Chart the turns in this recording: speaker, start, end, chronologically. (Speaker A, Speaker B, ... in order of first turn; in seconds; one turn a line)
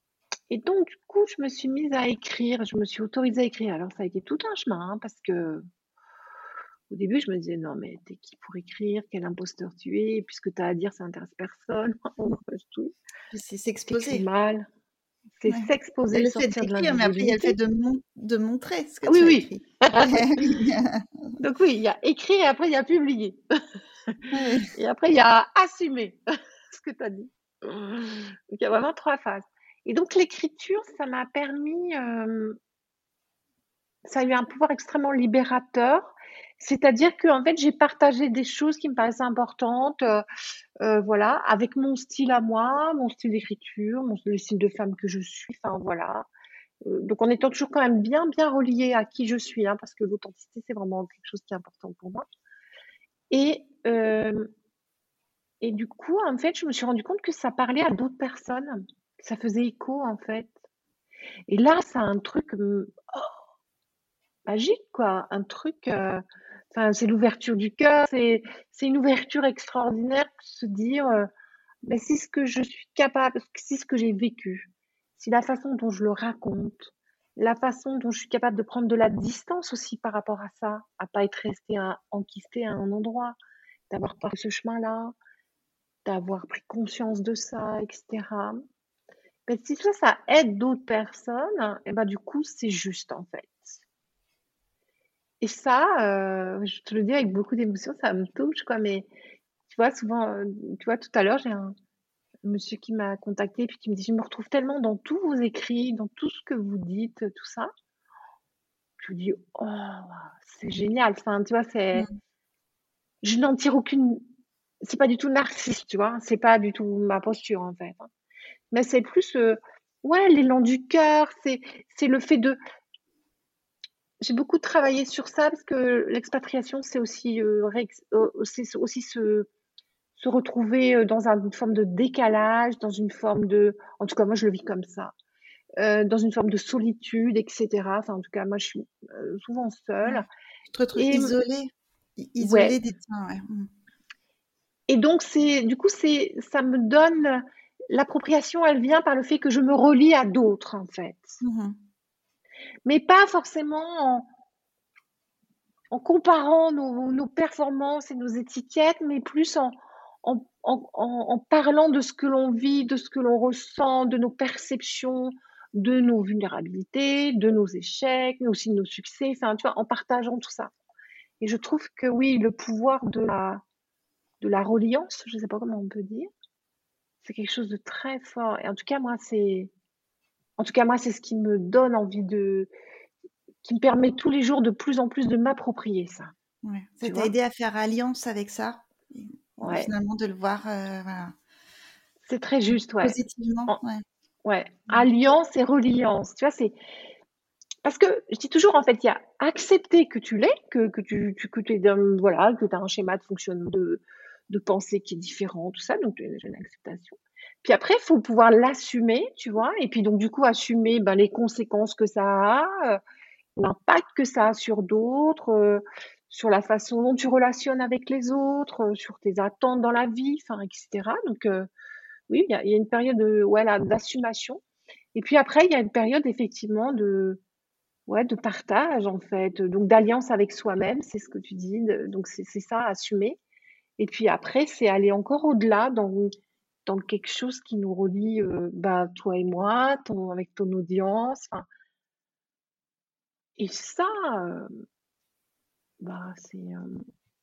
Speaker A: 0.5-5.6
Speaker A: 6.9-12.9
Speaker B: 13.3-14.3
Speaker A: 13.8-14.7
Speaker A: 15.4-17.6
Speaker B: 15.5-21.3
Speaker A: 19.1-20.6
Speaker A: 21.4-23.4
Speaker A: 24.1-32.6
Speaker B: 24.3-24.7
Speaker A: 34.0-40.2
Speaker A: 40.8-46.3
Speaker A: 46.8-52.2
Speaker A: 53.3-54.5
Speaker A: 55.6-60.5
Speaker A: 61.5-63.4
Speaker A: 64.5-71.3
Speaker A: 71.8-83.4
Speaker A: 83.9-85.2
Speaker A: 86.0-88.6
Speaker A: 89.5-93.8
Speaker A: 95.4-99.1
Speaker A: 99.7-101.7
Speaker A: 102.4-107.7
Speaker A: 109.0-112.1
Speaker A: 113.2-114.2
Speaker A: 114.8-118.1
Speaker A: 118.7-122.6
Speaker A: 124.2-129.5
Speaker A: 130.2-135.1
Speaker A: 135.8-140.3
Speaker B: 140.1-143.7
Speaker A: 141.0-141.3
Speaker A: 142.4-142.8
Speaker A: 144.9-151.4
Speaker B: 151.4-151.8
Speaker A: 152.8-154.3
Speaker A: 155.9-170.7
Speaker A: 171.4-173.6
Speaker A: 174.4-176.3
Speaker A: 177.2-179.7
Speaker A: 180.6-182.7
Speaker A: 183.6-186.3
Speaker B: 186.6-191.3
Speaker A: 187.0-187.3
Speaker A: 189.6-189.9
Speaker A: 192.3-193.2
Speaker B: 193.0-194.0
Speaker A: 194.4-196.8
Speaker A: 197.8-213.0
Speaker A: 213.6-221.7
Speaker A: 222.3-224.6
Speaker A: 225.2-227.4
Speaker A: 228.1-233.4
Speaker A: 234.0-236.3
Speaker A: 236.9-241.7
Speaker A: 243.6-244.8
Speaker A: 246.0-247.1